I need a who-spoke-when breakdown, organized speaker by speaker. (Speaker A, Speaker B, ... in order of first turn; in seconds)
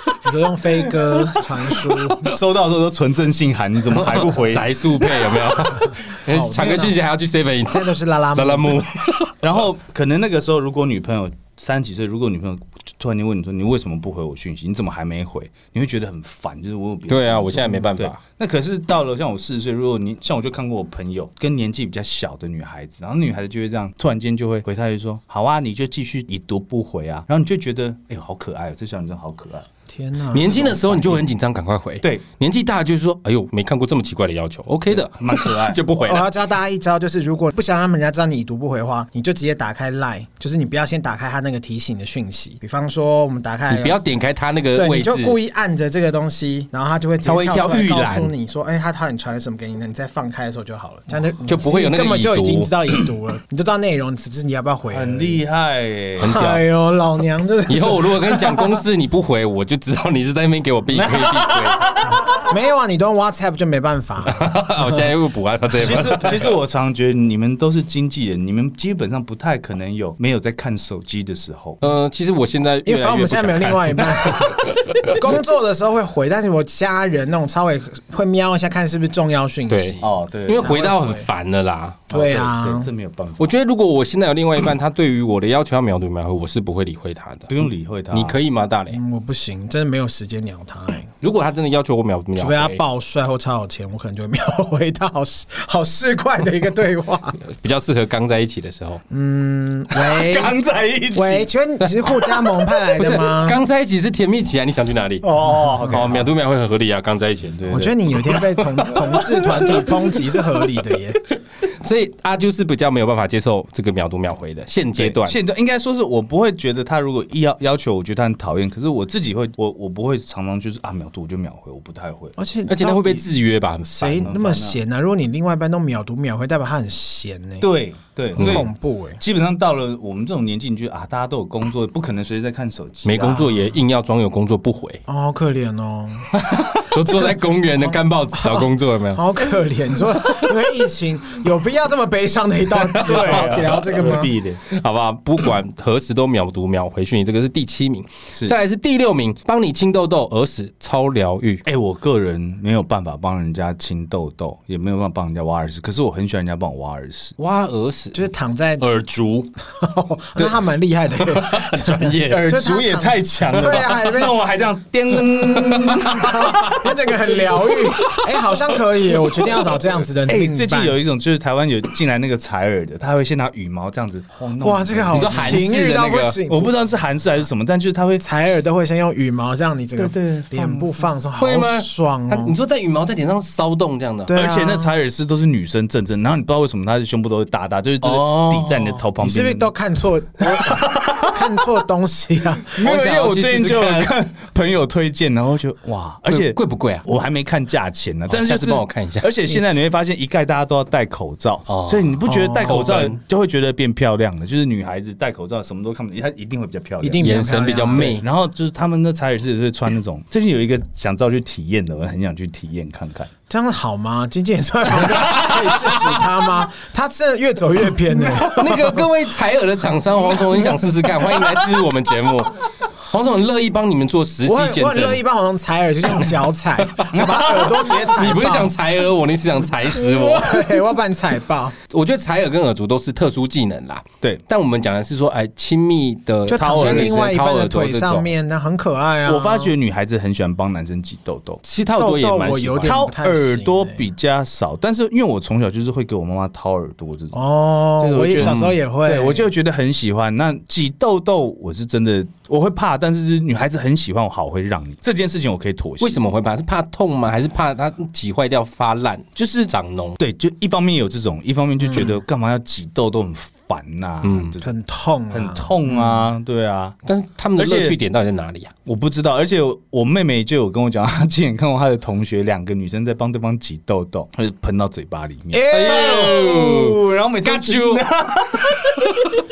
Speaker A: 0.2-2.3, 6.3-7.0, 7.7-8.8, 29.9-31.2, 36.0-44.0, 44.7-55.4, 56.2-58.7, 62.4-65.1, 72.8-81.3, 82.1-82.9, 88.9-91.1, 92.3-97.4, 99.1-100.5, 101.1-103.6, 105.8-106.2, 107.7-111.2, 122.4-123.2, 123.8-127.7, 128.3-129.2, 133.2-133.6, 135.1-136.3, 137.8-144.3, 158.1-158.9, 159.7-164.4, 165.8-171.0, 174.6-176.7, 178.2-182.5, 184.3-184.9, 189.2-192.8, 202.3-203.1, 207.0-208.2, 213.5-219.1, 224.4-228.7, 229.9-231.8, 236.5-239.7, 241.9-244.0, 247.3-249.5, 261.8-262.2, 264.6-266.3, 275.5-276.4
Speaker B: 2.2-5.1, 9.4-29.6, 34.9-35.8, 54.9-56.5, 60.9-62.4, 65.7-71.8, 80.0-80.9, 82.1-83.5, 87.5-88.4, 99.9-101.5, 105.2-106.3, 107.5-107.9, 108.9-109.8, 115.0-122.3, 124.2-124.8, 127.6-133.5, 136.4-136.8, 143.0-144.6, 151.6-157.4, 162.3-166.8, 170.2-175.7, 176.5-178.2, 180.0-181.1, 184.3-189.7, 190.4-191.7, 192.7-207.3, 207.9-213.3, 227.1-227.9, 236.5-237.3, 239.2-241.6, 242.8-247.4, 248.0-256.2, 259.4-264.7, 265.3-267.0, 267.6-268.0, 268.9-279.1
Speaker C: 3.9-9.3, 17.1-18.2, 30.3-36.3, 43.7-45.4, 47.2-48.3, 51.5-52.7, 56.2-56.6, 57.7-61.9, 64.2-66.5, 71.8-75.3, 79.7-82.1, 83.4-87.5, 88.1-89.0, 91.2-92.8, 97.5-99.0, 101.8-102.1, 103.0-105.3, 105.8-109.8, 111.6-115.4, 122.7-124.3, 128.4-128.7, 133.0-135.0, 136.9-139.2, 142.8-144.1, 144.7-151.6, 157.4-158.2, 158.8-159.5, 161.2-162.5, 165.4-166.8, 168.0-168.3, 175.1-176.3, 181.4-184.3, 188.0-189.0, 192.8-194.1, 196.3-197.1, 198.3-199.3, 201.7-203.2, 207.2-208.2, 215.3-216.1, 218.2-225.2, 226.1-226.3, 227.0-230.7, 231.9-238.3, 241.6-243.0, 248.4-248.7, 256.0-260.2, 264.2-264.5, 267.1-268.7, 275.7-278.0